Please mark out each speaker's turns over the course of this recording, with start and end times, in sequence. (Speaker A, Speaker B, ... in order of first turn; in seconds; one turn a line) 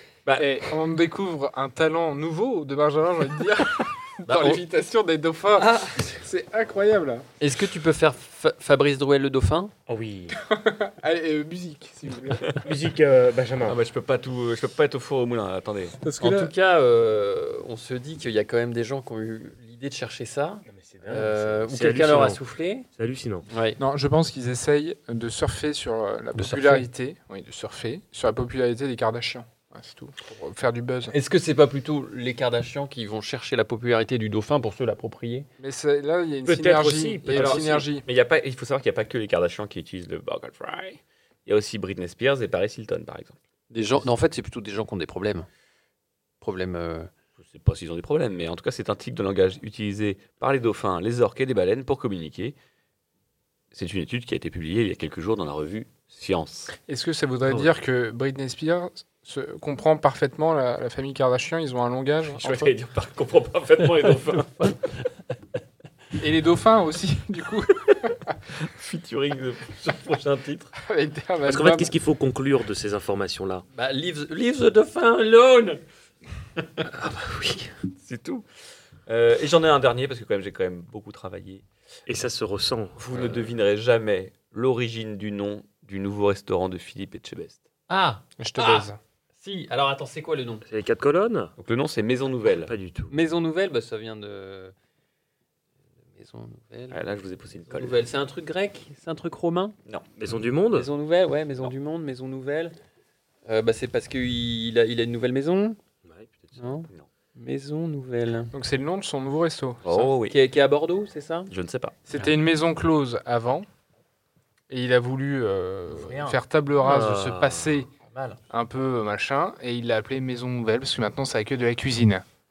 Speaker A: 0.2-0.6
Speaker B: 0.4-7.3
Speaker C: 4.3-4.6
Speaker C: 7.4-9.7
Speaker D: 9.9-10.4
Speaker B: 10.4-12.6
Speaker D: 12.6-13.8
Speaker A: 13.7-16.0
Speaker B: 16.0-16.5
Speaker C: 16.2-22.9
Speaker D: 20.7-23.5
Speaker C: 23.5-23.8
Speaker B: 23.8-31.1
Speaker C: 26.4-26.9
Speaker C: 31.1-35.5
Speaker B: 35.6-38.1
Speaker D: 36.5-37.9
Speaker C: 37.3-37.8
Speaker A: 38.0-43.4
Speaker C: 43.7-45.5
Speaker C: 46.4-47.1
Speaker A: 47.4-52.6
Speaker A: 53.7-56.8
Speaker B: 56.9-62.7
Speaker D: 57.5-57.7
Speaker A: 62.3-64.7
Speaker C: 64.6-65.2
Speaker B: 66.2-68.4
Speaker A: 68.6-70.7
Speaker B: 70.8-71.9
Speaker D: 71.4-73.7
Speaker C: 73.8-75.8
Speaker D: 76.8-77.8
Speaker A: 78.0-78.5
Speaker A: 79.1-81.7
Speaker D: 82.1-83.3
Speaker A: 83.0-87.6
Speaker C: 87.9-90.6
Speaker B: 88.4-89.0
Speaker D: 90.7-91.5
Speaker A: 91.6-92.7
Speaker D: 92.7-93.1
Speaker C: 93.1-94.7
Speaker C: 96.1-97.0
Speaker A: 96.9-98.0
Speaker C: 97.7-99.8
Speaker D: 100.2-100.9
Speaker C: 100.7-102.8
Speaker C: 103.5-105.8
Speaker D: 106.0-106.7
Speaker C: 106.6-108.5
Speaker B: 108.5-110.1
Speaker A: 109.8-110.4
Speaker C: 110.2-111.5
Speaker A: 111.5-112.0
Speaker B: 112.1-113.7
Speaker B: 114.7-117.9
Speaker C: 116.1-116.4
Speaker D: 116.8-117.8
Speaker B: 118.5-122.2